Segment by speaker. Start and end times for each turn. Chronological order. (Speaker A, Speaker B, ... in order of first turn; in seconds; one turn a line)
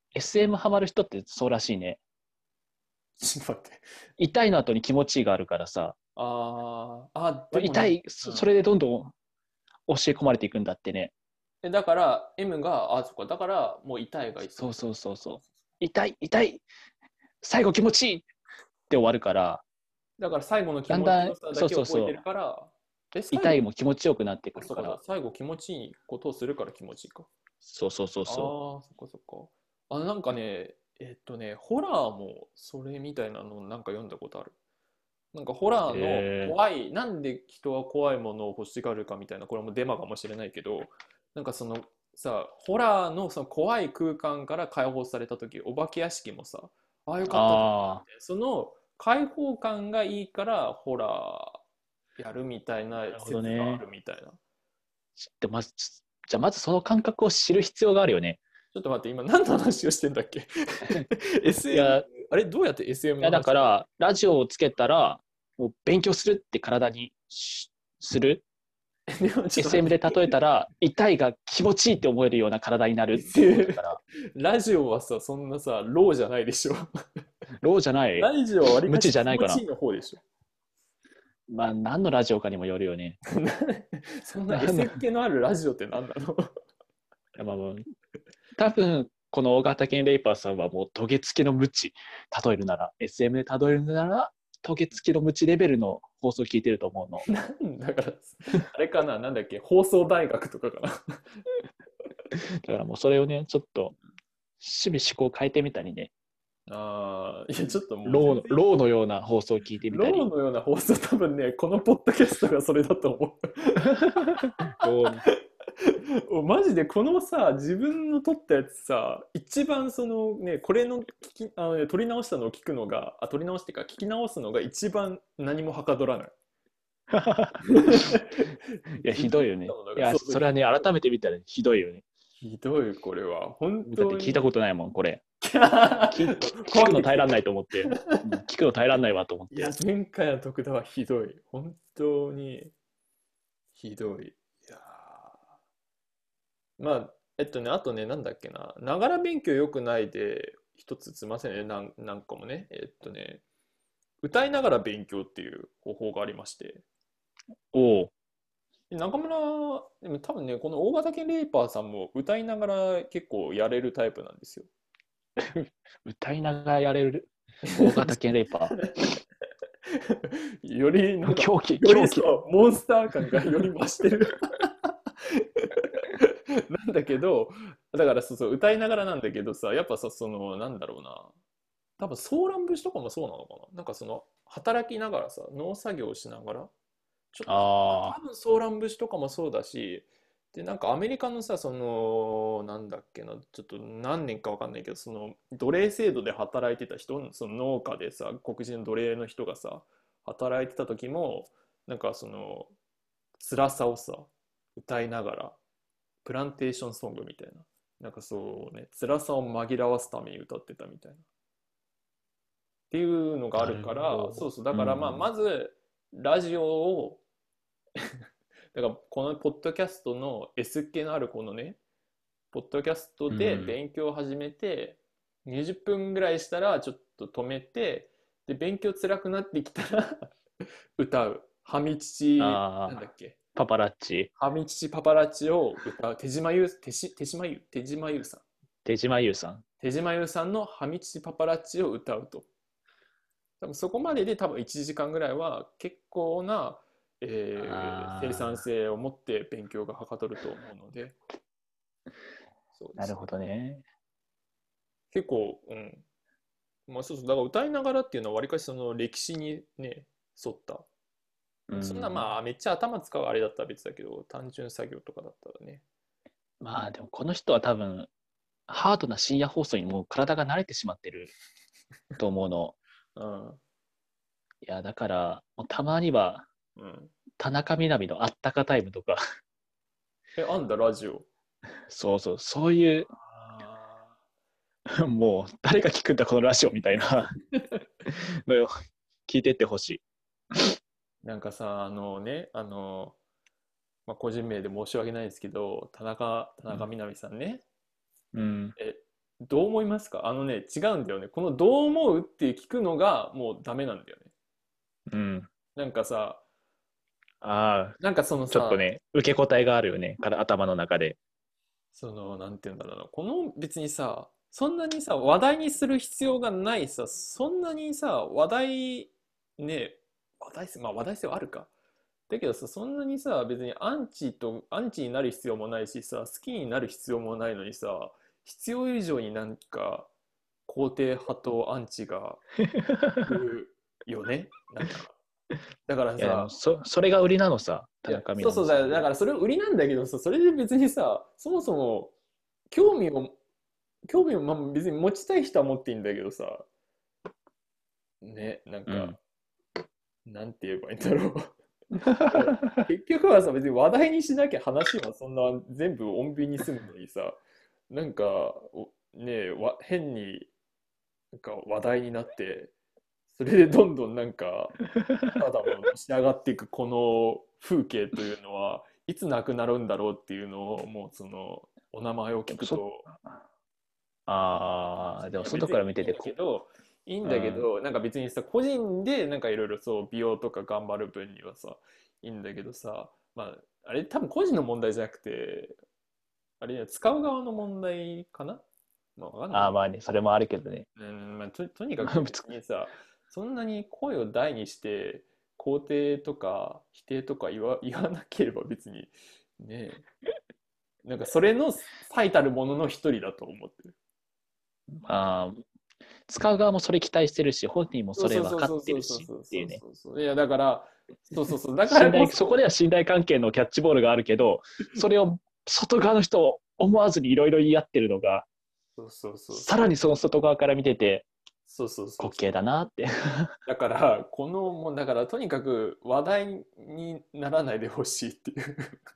Speaker A: 0.1-2.0
Speaker B: 3.2-3.8
Speaker A: 4.2-6.0
Speaker B: 6.2-8.5
Speaker A: 7.5-9.1
Speaker A: 9.9-11.1
Speaker B: 11.6-14.7
Speaker A: 14.6-16.6
Speaker A: 17.4-18.3
Speaker A: 18.9-19.6
Speaker B: 20.2-23.6
Speaker A: 20.9-22.2
Speaker A: 23.3-25.0
Speaker B: 24.6-27.3
Speaker A: 27.6-28.5
Speaker B: 28.3-34.5
Speaker B: 35.3-51.6
Speaker A: 35.9-36.5
Speaker A: 47.3-48.0
Speaker B: 52.2-54.4
Speaker A: 53.1-53.8
Speaker A: 55.2-58.4
Speaker B: 58.7-63.7
Speaker A: 61.7-62.1
Speaker A: 63.2-68.4
Speaker B: 69.1-70.3
Speaker A: 69.6-74.0
Speaker B: 73.2-73.8
Speaker B: 74.3-76.9
Speaker A: 77.6-78.3
Speaker B: 78.2-80.2
Speaker A: 78.9-79.6
Speaker A: 81.5-83.2
Speaker B: 83.3-86.5
Speaker A: 84.5-85.0
Speaker A: 87.4-87.8
Speaker A: 88.6-97.3
Speaker B: 97.3-101.2
Speaker A: 102.3-104.0
Speaker A: 104.6-106.1
Speaker B: 106.7-108.6
Speaker A: 108.1-110.3
Speaker B: 109.9-113.9
Speaker A: 114.1-115.2
Speaker B: 115.2-126.3
Speaker A: 127.1-128.2
Speaker B: 127.7-130.6
Speaker A: 129.0-132.1
Speaker B: 132.4-134.4
Speaker A: 133.9-135.2
Speaker B: 135.4-138.2
Speaker A: 136.1-139.8
Speaker B: 139.5-142.7
Speaker B: 143.8-145.4
Speaker B: 146.8-153.4
Speaker B: 154.2-156.8
Speaker A: 157.7-158.1
Speaker B: 158.9-164.7
Speaker A: 165.4-168.8
Speaker B: 167.7-169.1
Speaker B: 169.9-181.3
Speaker A: 171.3-172.4
Speaker B: 182.0-186.7
Speaker B: 187.3-202.7
Speaker A: 187.5-188.2
Speaker B: 203.4-205.6
Speaker B: 206.2-211.2
Speaker B: 212.9-217.2
Speaker A: 213.6-215.3
Speaker B: 218.7-221.8
Speaker B: 222.5-230.3
Speaker A: 223.3-223.8
Speaker B: 231.0-233.4
Speaker A: 232.4-233.0
Speaker A: 233.6-234.3
Speaker B: 234.4-238.4
Speaker A: 238.8-239.6
Speaker B: 239.8-242.5
Speaker B: 243.6-251.2
Speaker A: 247.6-248.6
Speaker B: 252.7-253.2
Speaker A: 253.0-253.8
Speaker B: 255.1-256.0
Speaker B: 256.9-260.9
Speaker A: 261.7-262.3
Speaker B: 261.8-265.8
Speaker A: 266.6-268.1
Speaker A: 268.7-271.3
Speaker A: 272.2-272.8
Speaker B: 273.2-273.6
Speaker A: 274.6-276.5
Speaker B: 276.8-277.1
Speaker A: 277.4-279.2
Speaker B: 280.4-281.3
Speaker A: 281.9-283.1
Speaker B: 283.1-284.1
Speaker A: 285.0-287.4
Speaker A: 288.1-288.7
Speaker A: 289.3-290.0
Speaker B: 291.2-293.2
Speaker B: 294.1-297.6
Speaker A: 298.3-298.8
Speaker B: 298.8-304.3
Speaker A: 305.1-305.5
Speaker B: 305.8-306.4
Speaker A: 307.4-308.0
Speaker B: 308.0-308.8
Speaker A: 308.5-311.2
Speaker B: 311.9-321.7
Speaker B: 322.3-330.1
Speaker B: 330.7-332.4
Speaker A: 332.7-333.3
Speaker B: 333.2-335.2
Speaker B: 335.9-336.5
Speaker A: 336.2-339.1
Speaker B: 338.1-342.1
Speaker B: 342.7-343.4
Speaker B: 344.1-346.7
Speaker B: 348.2-349.2
Speaker A: 348.9-349.2
Speaker B: 350.3-351.5
Speaker A: 352.0-352.9
Speaker B: 352.3-360.5
Speaker B: 361.3-362.7
Speaker B: 363.3-364.8
Speaker A: 365.0-365.4
Speaker B: 365.3-373.1
Speaker A: 372.5-372.8
Speaker A: 374.3-376.3
Speaker B: 375.2-385.8
Speaker A: 377.2-377.7
Speaker B: 386.6-388.6
Speaker B: 389.2-389.8
Speaker A: 389.5-390.9
Speaker B: 391.0-400.1
Speaker A: 392.1-392.5
Speaker B: 401.1-403.9
Speaker A: 405.0-405.6
Speaker A: 406.3-409.8
Speaker B: 408.2-412.6
Speaker A: 411.9-418.5
Speaker B: 419.0-419.7
Speaker A: 419.5-421.3
Speaker B: 421.7-422.5
Speaker A: 422.2-423.5
Speaker B: 423.7-429.0